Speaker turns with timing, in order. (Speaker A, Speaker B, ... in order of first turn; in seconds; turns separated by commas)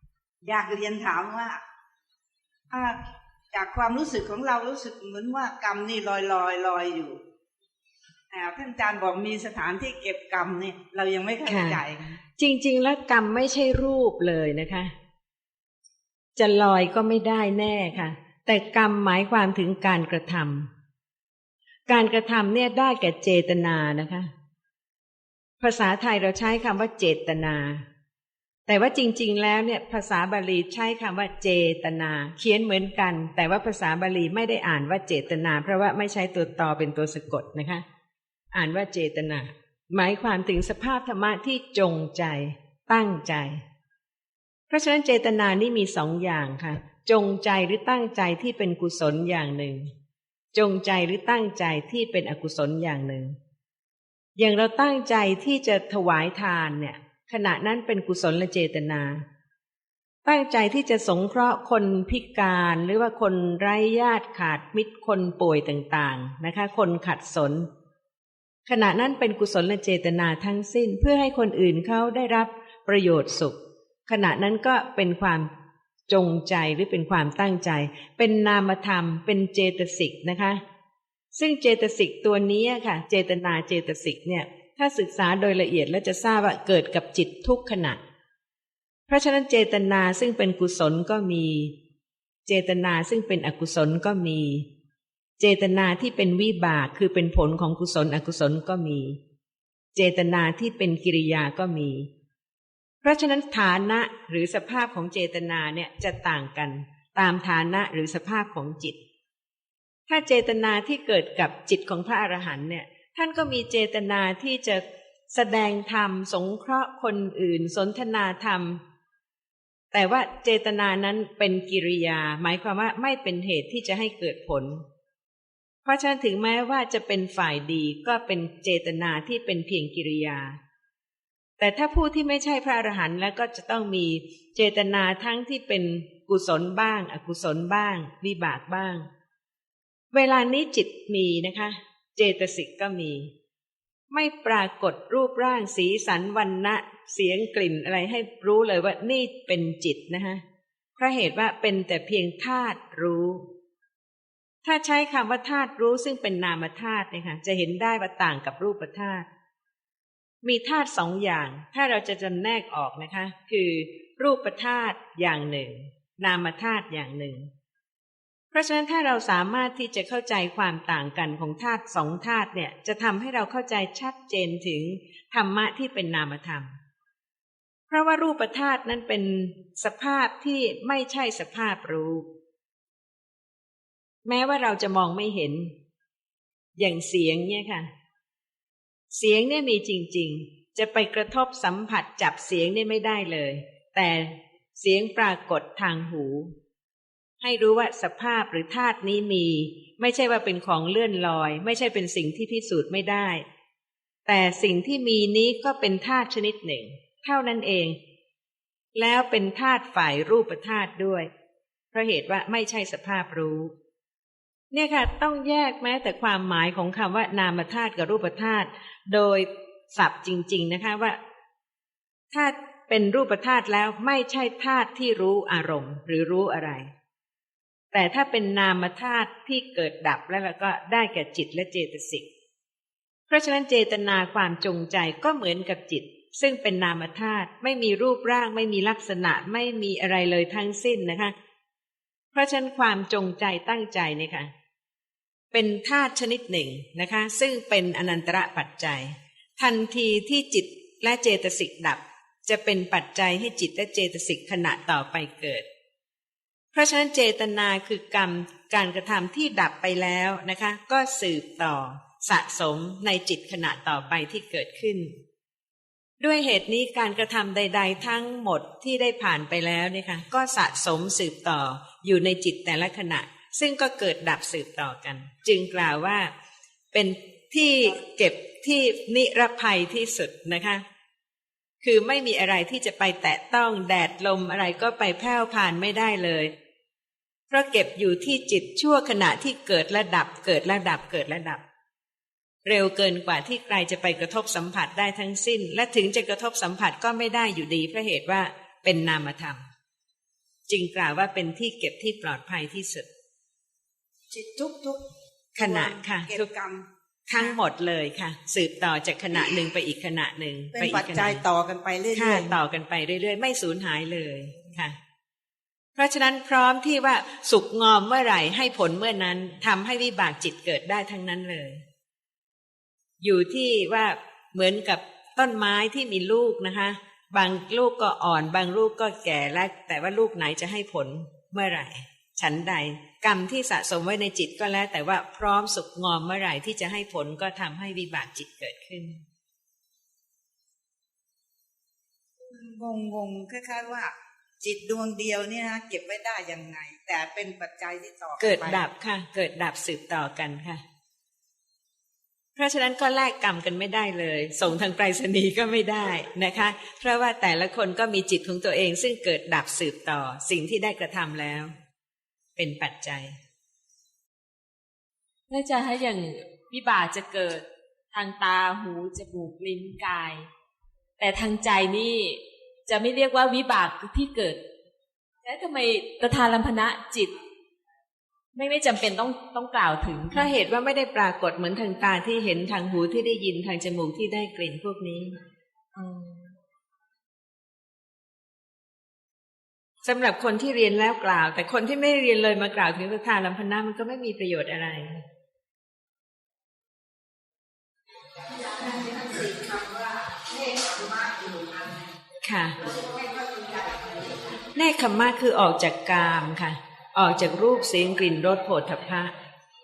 Speaker A: 0.4-1.6, Speaker A: 2.7-3.0, Speaker A: 3.5-7.2, Speaker A: 8.3-12.2, Speaker B: 11.4-11.8, Speaker B: 12.4-14.9, Speaker B: 16.4-20.7, Speaker B: 21.9-24.3, Speaker B: 25.6-27.8, Speaker B: 28.7-37.8, Speaker B: 38.5-43.6, Speaker B: 44.7-49.9, Speaker B: 50.5-53.4, Speaker B: 54.4-59.2, Speaker B: 60.2-67.7, Speaker B: 68.7-75.5, Speaker B: 76.1-80.6, Speaker B: 81.3-88.0, Speaker B: 89.1-91.7, Speaker B: 92.5-94.7, Speaker B: 95.4-99.2, Speaker B: 100.0-102.1, Speaker B: 103.0-109.0, Speaker B: 110.1-118.8, Speaker B: 119.9-124.8, Speaker B: 125.8-130.6, Speaker B: 131.6-139.1, Speaker B: 140.1-143.3, Speaker B: 144.1-150.4, Speaker B: 151.0-153.5, Speaker B: 154.6-159.2, Speaker B: 160.4-167.5, Speaker B: 168.5-176.8, Speaker B: 177.9-182.2, Speaker B: 184.2-185.7, Speaker B: 186.8-187.9, Speaker B: 189.1-196.5, Speaker B: 197.4-203.4, Speaker B: 204.2-208.0, Speaker B: 209.0-211.3, Speaker B: 211.9-213.7, Speaker B: 214.7-221.2, Speaker B: 222.3-226.9, Speaker B: 227.9-232.2, Speaker B: 233.3-241.3, Speaker B: 242.3-244.5, Speaker B: 245.5-255.7, Speaker B: 256.7-265.1, Speaker B: 266.2-276.3, Speaker B: 276.9-280.9, Speaker B: 281.8-286.5, Speaker B: 287.5-291.6, Speaker B: 292.6-299.7, Speaker B: 300.7-303.1, Speaker A: 304.3-307.6, Speaker B: 305.6-306.5, Speaker B: 307.3-311.4, Speaker A: 310.8-312.6, Speaker B: 312.1-315.0, Speaker B: 316.0-321.8, Speaker B: 323.2-339.2, Speaker A: 342.5-348.8, Speaker B: 348.4-350.8, Speaker B: 352.6-361.7, Speaker B: 362.6-363.4, Speaker C: 365.5-370.5, Speaker C: 371.2-374.6, Speaker C: 375.4-377.4, Speaker C: 378.5-380.5, Speaker B: 380.3-385.4, Speaker C: 385.9-386.5, Speaker B: 390.0-395.2, Speaker A: 398.4-402.1, Speaker B: 402.4-402.8, Speaker A: 402.8-404.6, Speaker B: 404.8-409.3